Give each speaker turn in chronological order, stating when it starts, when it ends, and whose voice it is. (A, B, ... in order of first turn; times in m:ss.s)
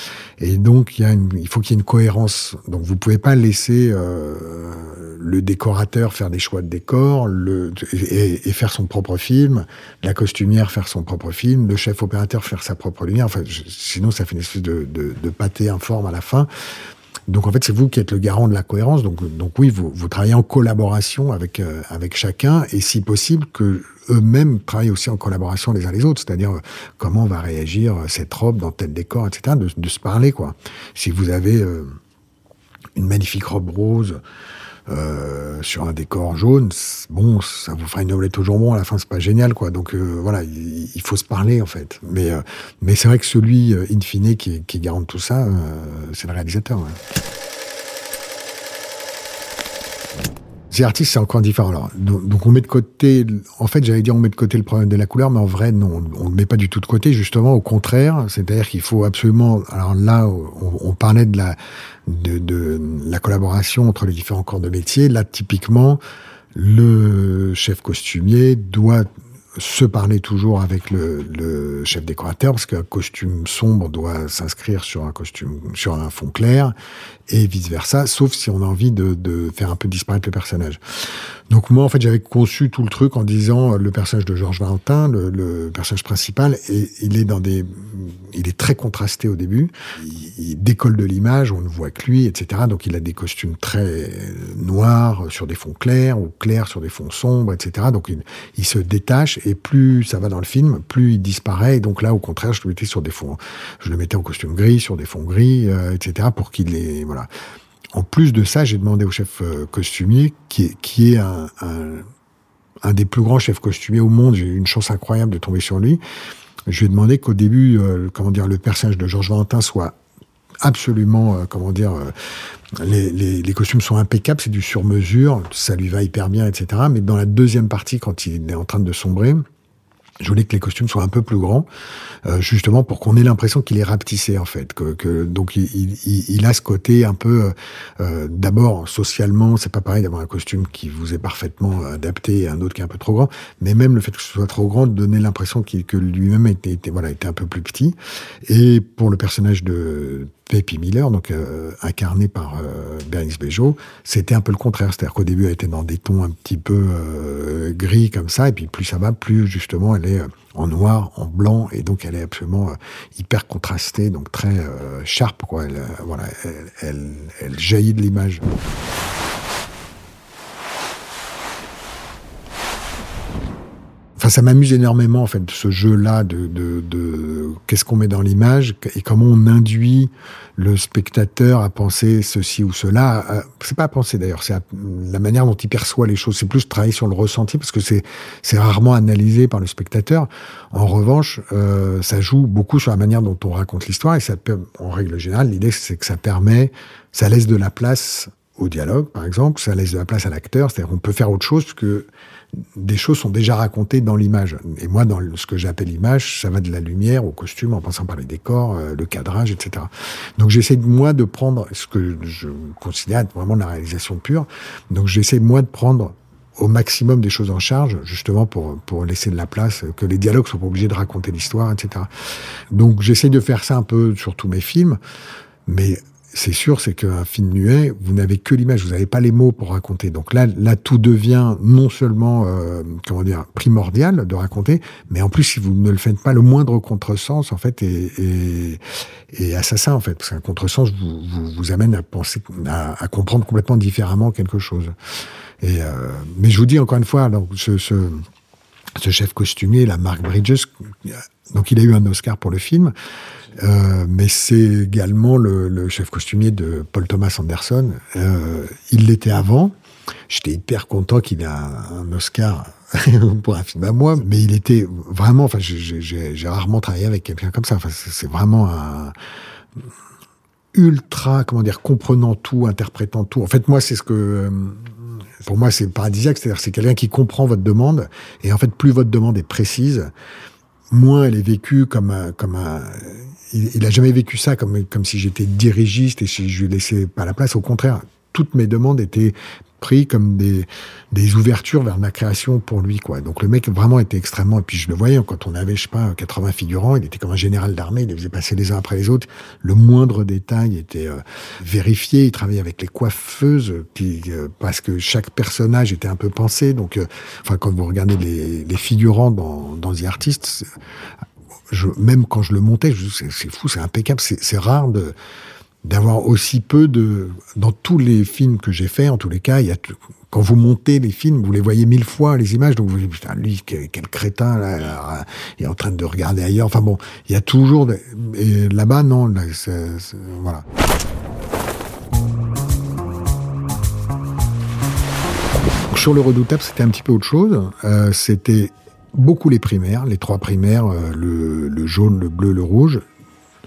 0:00.4-0:16.5 A
0:17.3-0:31.9 A
0:33.0-0:34.2 A
0:34.9-0:47.0 A
0:50.7-1:06.0 A
1:06.5-1:16.7 A
1:17.3-1:20.8 A
1:21.5-1:47.3 A
1:47.9-1:52.0 A
1:52.8-1:56.0 A
1:56.7-1:59.9 A
2:00.6-2:02.1 A
2:02.8-2:09.4 A
2:10.2-2:11.7 A
2:12.2-2:28.0 A
2:28.5-2:48.4 A
2:54.2-3:22.1 A
3:22.8-3:42.1 A
3:42.7-3:45.0 A
3:45.7-3:58.8 A
3:59.3-4:04.9 A
4:05.6-4:08.2 A
4:09.0-4:12.9 A
4:13.6-4:19.7 A
4:20.3-4:29.1 A
4:30.7-4:40.1 A
4:40.9-5:10.6 A
5:11.7-5:15.1 A
5:15.8-5:30.6 A
5:35.9-5:43.0 A